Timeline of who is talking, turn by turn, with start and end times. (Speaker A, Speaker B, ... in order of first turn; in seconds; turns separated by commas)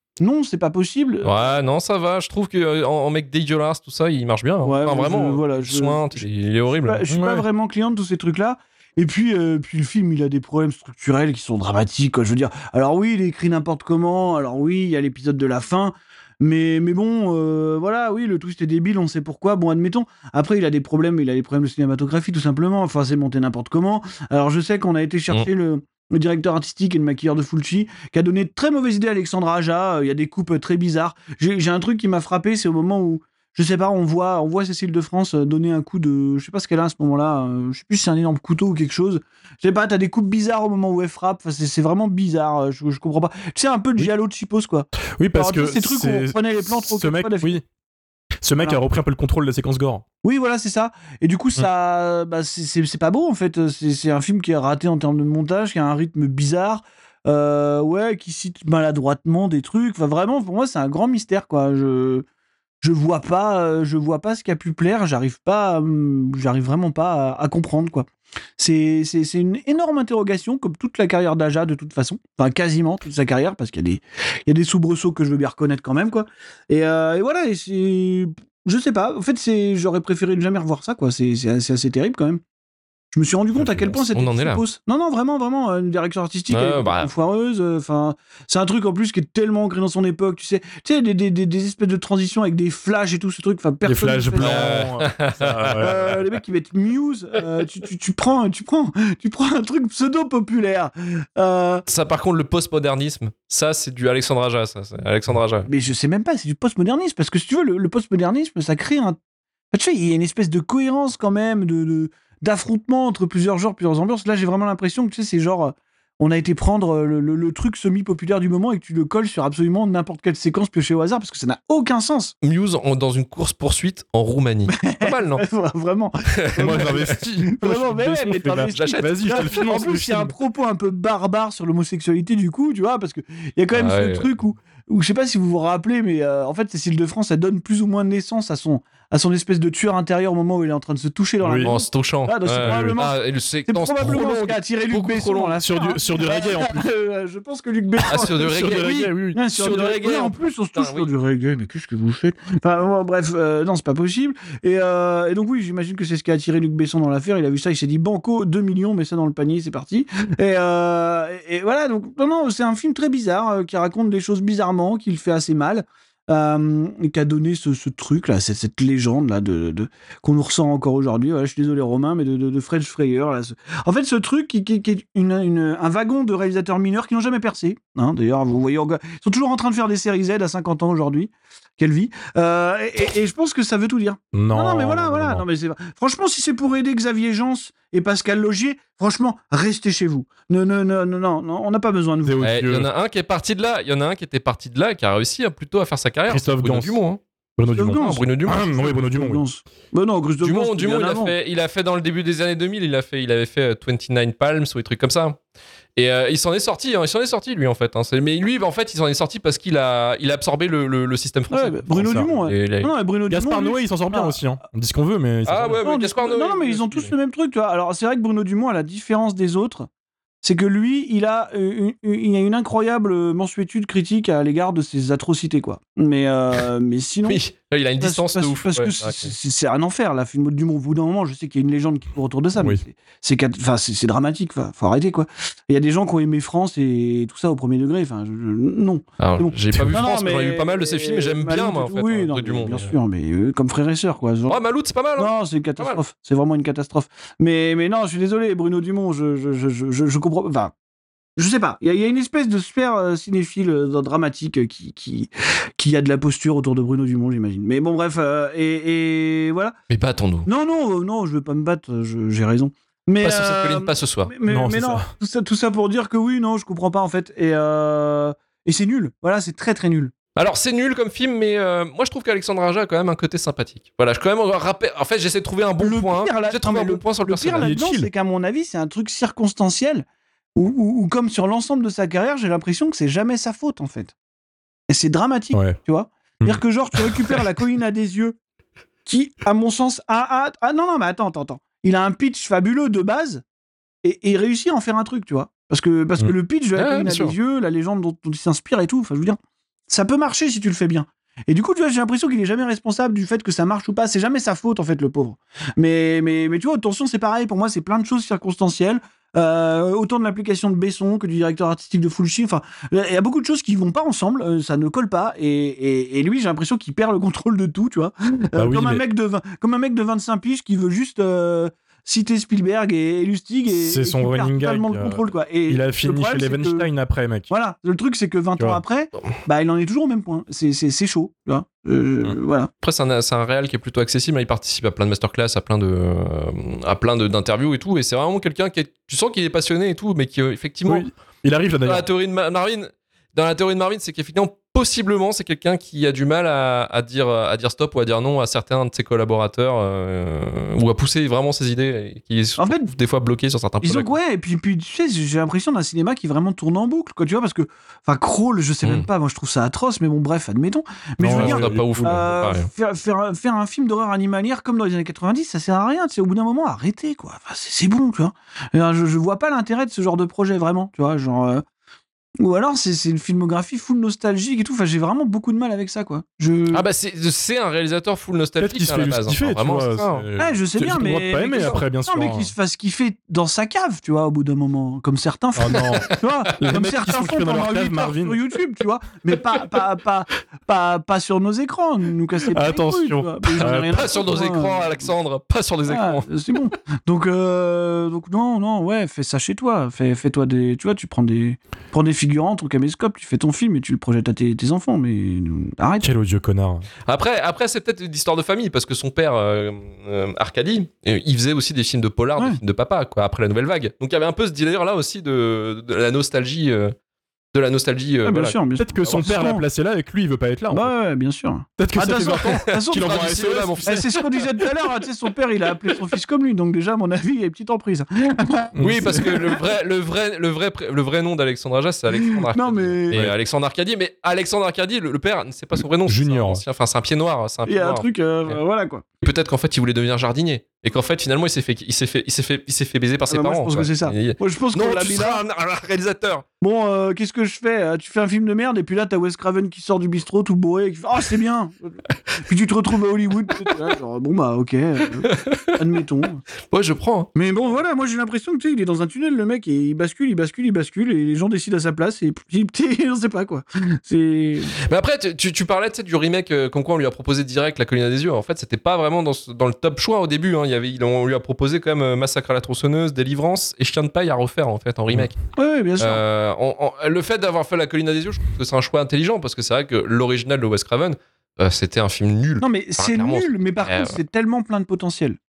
Speaker A: 0.2-1.5, Speaker B: 1.2-7.0, Speaker A: 4.6-6.2, Speaker A: 6.8-47.6, Speaker C: 7.1-7.5, Speaker C: 45.2-47.6, Speaker C: 48.4-50.0, Speaker A: 50.2-62.2, Speaker A: 62.8-82.4, Speaker A: 83.1-94.9, Speaker C: 83.5-84.0, Speaker B: 84.1-84.6, Speaker B: 86.5-87.1, Speaker C: 93.8-96.2, Speaker B: 94.4-96.1, Speaker A: 95.7-101.8, Speaker B: 101.9-105.7, Speaker A: 105.7-109.2, Speaker A: 109.7-122.3, Speaker B: 122.4-125.4, Speaker A: 124.7-192.4, Speaker B: 126.4-127.0, Speaker C: 126.6-130.3, Speaker B: 128.6-129.7, Speaker B: 133.7-134.3, Speaker C: 141.4-141.7, Speaker B: 141.6-145.6, Speaker C: 142.6-143.0, Speaker C: 145.6-146.8, Speaker B: 148.1-151.1, Speaker C: 148.2-149.4, Speaker C: 184.3-185.4, Speaker C: 192.2-192.9, Speaker B: 192.4-197.2, Speaker C: 196.3-197.0, Speaker C: 197.6-199.4, Speaker A: 197.8-201.3, Speaker B: 197.9-198.7, Speaker B: 200.4-205.4, Speaker B: 206.0-212.9, Speaker A: 211.5-214.4, Speaker C: 212.0-212.3, Speaker C: 213.3-215.8, Speaker B: 215.4-217.1, Speaker A: 215.8-219.9, Speaker A: 220.4-227.4, Speaker B: 227.3-229.3, Speaker A: 228.0-244.6, Speaker B: 239.2-242.9, Speaker C: 239.7-240.0, Speaker B: 244.5-246.0, Speaker A: 245.2-250.7, Speaker A: 251.4-259.8, Speaker B: 259.9-260.5, Speaker A: 260.5-270.1, Speaker B: 263.2-264.3, Speaker C: 264.5-265.1, Speaker B: 270.4-277.7, Speaker A: 275.8-280.1, Speaker C: 277.6-278.1, Speaker A: 280.6-284.1, Speaker A: 284.9-288.4, Speaker A: 289.1-293.4, Speaker A: 294.0-326.9, Speaker B: 296.8-297.4, Speaker C: 318.6-319.0, Speaker C: 323.7-327.5, Speaker A: 327.5-332.7, Speaker B: 332.8-341.1, Speaker C: 340.9-342.1, Speaker B: 341.8-354.1, Speaker A: 352.6-352.9, Speaker A: 353.8-371.6, Speaker B: 358.8-359.1, Speaker C: 361.2-362.3, Speaker B: 361.3-362.7, Speaker A: 372.4-376.9, Speaker B: 376.7-380.3, Speaker C: 378.6-382.5, Speaker A: 380.4-395.1, Speaker B: 381.5-381.8, Speaker C: 385.6-388.4, Speaker C: 392.5-394.0, Speaker B: 393.6-396.3, Speaker A: 395.9-406.1, Speaker C: 406.0-406.9, Speaker B: 407.1-416.9, Speaker B: 417.5-419.2, Speaker A: 418.2-419.6, Speaker C: 418.8-420.9, Speaker A: 420.7-429.6, Speaker C: 421.8-424.1, Speaker B: 422.4-423.9, Speaker C: 428.8-429.3, Speaker B: 428.8-438.6, Speaker A: 432.1-433.3, Speaker C: 436.1-436.6, Speaker A: 437.7-439.0, Speaker B: 439.2-446.4, Speaker A: 443.3-445.4, Speaker A: 446.6-456.4, Speaker B: 455.2-455.8, Speaker B: 456.7-457.3, Speaker A: 457.4-464.8, Speaker B: 464.8-475.4, Speaker A: 475.6-476.2, Speaker B: 476.0-484.2, Speaker A: 482.6-485.4